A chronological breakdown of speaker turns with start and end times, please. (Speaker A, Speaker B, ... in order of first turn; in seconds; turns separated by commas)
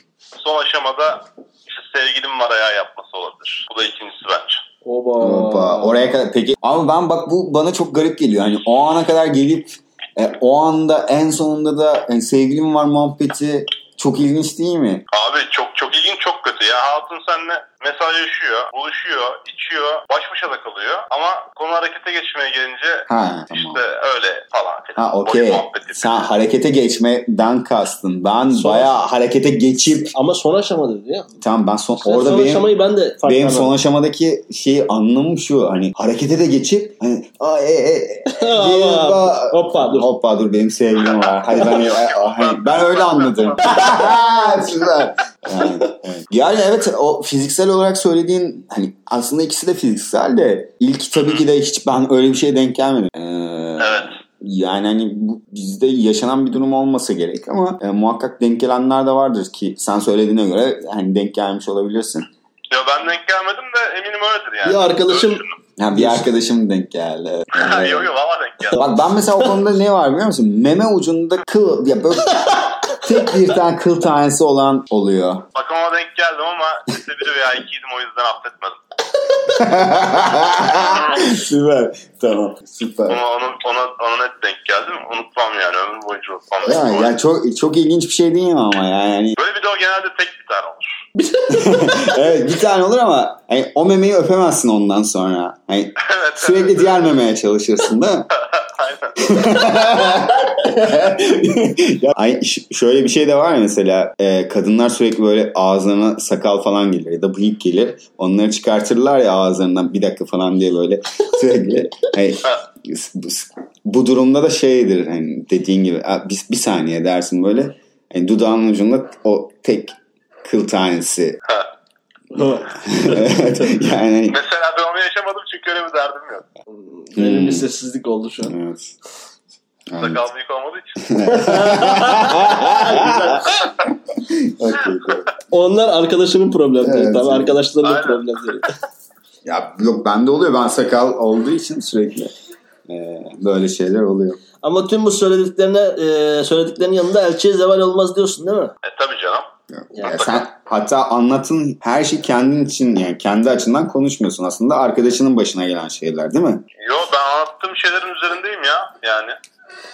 Speaker A: 0.4-4.6, Speaker B: 4.8-6.1, Speaker C: 5.2-15.1, Speaker A: 15.1-26.3, Speaker C: 23.1-23.8, Speaker C: 25.0-30.1, Speaker B: 28.5-28.9, Speaker B: 30.1-31.4, Speaker C: 31.4-32.7, Speaker B: 32.0-33.7, Speaker C: 33.2-62.3, Speaker B: 38.3-40.1, Speaker A: 41.0-44.3, Speaker B: 43.6-44.7, Speaker B: 45.5-46.0, Speaker A: 51.2-51.4, Speaker A: 53.8-54.2, Speaker A: 62.7-65.6, Speaker B: 64.6-66.3, Speaker C: 65.8-68.1, Speaker A: 67.5-68.8, Speaker C: 68.7-75.5, Speaker B: 68.8-69.6, Speaker B: 72.4-73.5, Speaker A: 75.5-78.8, Speaker C: 79.5-83.2, Speaker A: 80.7-81.2, Speaker A: 83.1-87.1, Speaker C: 86.6-89.4, Speaker A: 89.4-91.0, Speaker B: 91.2-92.3, Speaker C: 91.5-98.3, Speaker A: 96.0-97.1, Speaker A: 98.4-99.7, Speaker C: 99.2-121.4, Speaker B: 122.3-123.8, Speaker C: 122.4-124.4, Speaker A: 124.3-126.5, Speaker B: 126.7-128.6, Speaker C: 127.2-127.7, Speaker C: 128.4-128.9, Speaker C: 129.9-130.2, Speaker A: 130.0-131.5, Speaker C: 131.0-133.5, Speaker B: 131.2-133.7, Speaker C: 134.1-135.3, Speaker B: 135.5-138.7, Speaker C: 136.8-137.6, Speaker A: 137.8-138.6, Speaker C: 139.4-142.3, Speaker C: 142.9-144.4, Speaker B: 144.6-148.8, Speaker A: 148.8-149.5, Speaker C: 149.7-156.7, Speaker B: 149.9-150.2, Speaker A: 150.1-150.4, Speaker A: 156.8-159.4